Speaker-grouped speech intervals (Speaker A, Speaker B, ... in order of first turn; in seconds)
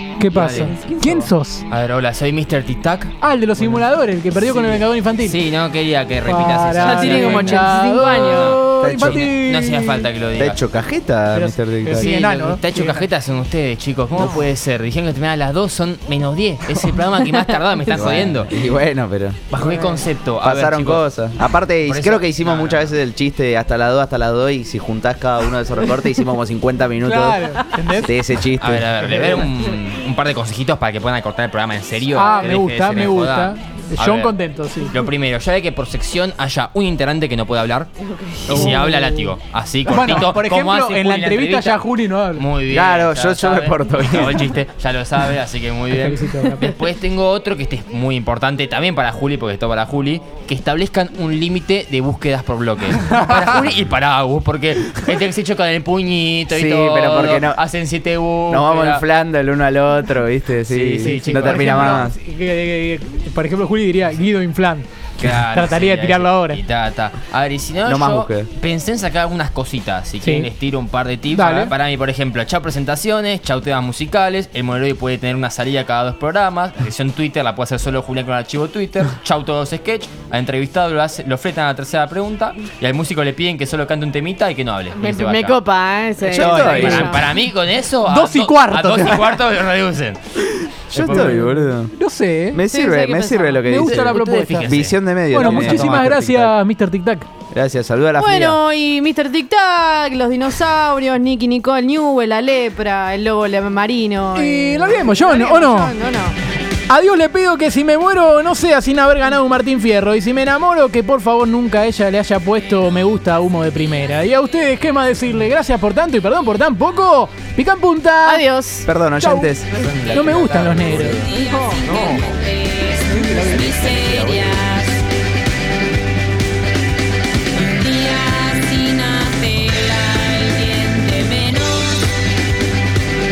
Speaker A: 0.2-1.7, 3.2-5.4, 6.2-10.1, 11.3-13.1, 27.0-28.2, 32.1-35.0, 38.5-39.3, 39.9-42.5, 45.9-46.7, 61.0-66.6, 70.2-70.5, 71.3-71.7, 86.6-87.2, 88.1-89.4, 91.0-92.6, 93.6-97.3, 104.3-106.0, 106.9-118.5, 119.2-121.2
Speaker B: 0.3-0.8, 1.7-10.6, 11.9-18.6, 19.5-21.1, 21.8-23.0, 28.6-34.4, 34.9-37.9, 38.4-41.8, 42.4-59.0, 60.7-61.9, 65.2-85.6, 86.2-91.4, 93.8-96.0, 119.8-122.4
Speaker C: 0.8-1.2, 6.8-8.6, 38.1-38.4, 84.9-87.3, 92.7-93.7, 98.2-106.4, 118.2-118.9, 121.2-122.0, 122.8-123.6, 124.3-124.7, 127.7-132.0
Speaker D: 8.8-9.3, 10.4-12.1, 17.9-19.5, 20.4-29.1, 42.7-44.5, 56.5-57.6, 58.5-62.2, 67.8-68.5, 86.3-87.3, 90.9-91.9, 92.5-96.5, 97.5-98.6, 118.8-121.3, 121.9-122.3, 123.1-124.8
Speaker E: 122.0-124.3, 127.8-131.8